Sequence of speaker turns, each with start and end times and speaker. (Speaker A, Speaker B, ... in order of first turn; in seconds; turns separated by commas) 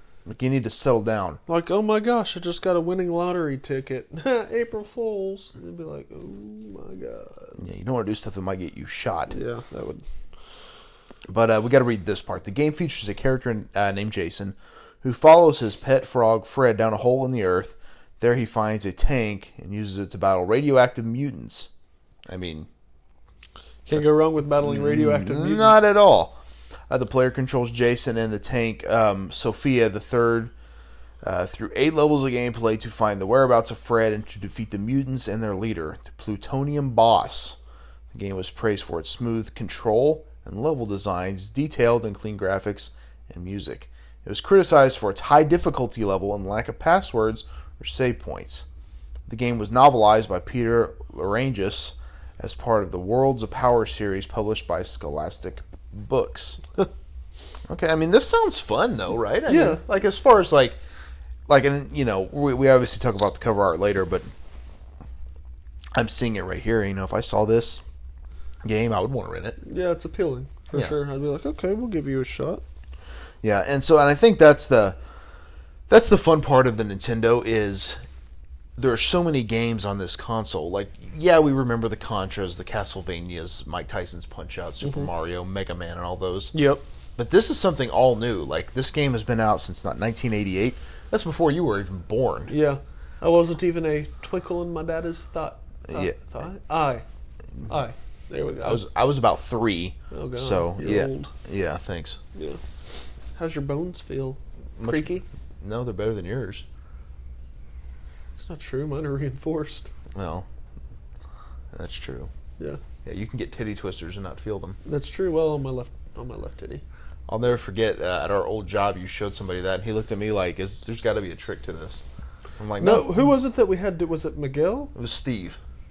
Speaker A: 0.3-1.4, Speaker B: 1.5-7.6, Speaker A: 7.6-9.4, Speaker B: 9.3-10.0, Speaker A: 11.3-21.7, Speaker A: 22.3-22.7, Speaker B: 23.8-25.9, Speaker A: 23.9-26.4, Speaker A: 26.9-30.5, Speaker A: 31.2-37.6, Speaker A: 38.1-48.6, Speaker A: 49.3-56.6, Speaker A: 57.7-60.8, Speaker B: 59.5-59.8, Speaker A: 61.5-64.3, Speaker A: 65.9-67.8, Speaker A: 68.6-69.6, Speaker B: 69.6-72.6, Speaker A: 70.7-71.0, Speaker A: 73.4-75.0, Speaker A: 75.9-78.0, Speaker A: 78.8-86.5, Speaker B: 84.8-85.1, Speaker B: 86.5-86.8, Speaker A: 87.2-92.5, Speaker B: 92.5-97.0, Speaker A: 95.9-96.2, Speaker B: 97.7-98.8, Speaker A: 98.6-102.2, Speaker B: 100.1-101.3, Speaker B: 103.3-105.2, Speaker A: 104.8-106.6, Speaker B: 108.3-109.9, Speaker A: 110.1-110.5, Speaker A: 111.7-112.3, Speaker A: 113.0-114.8, Speaker B: 114.8-116.8, Speaker A: 117.3-122.0, Speaker A: 122.6-123.3, Speaker B: 122.8-124.9, Speaker A: 124.9-125.6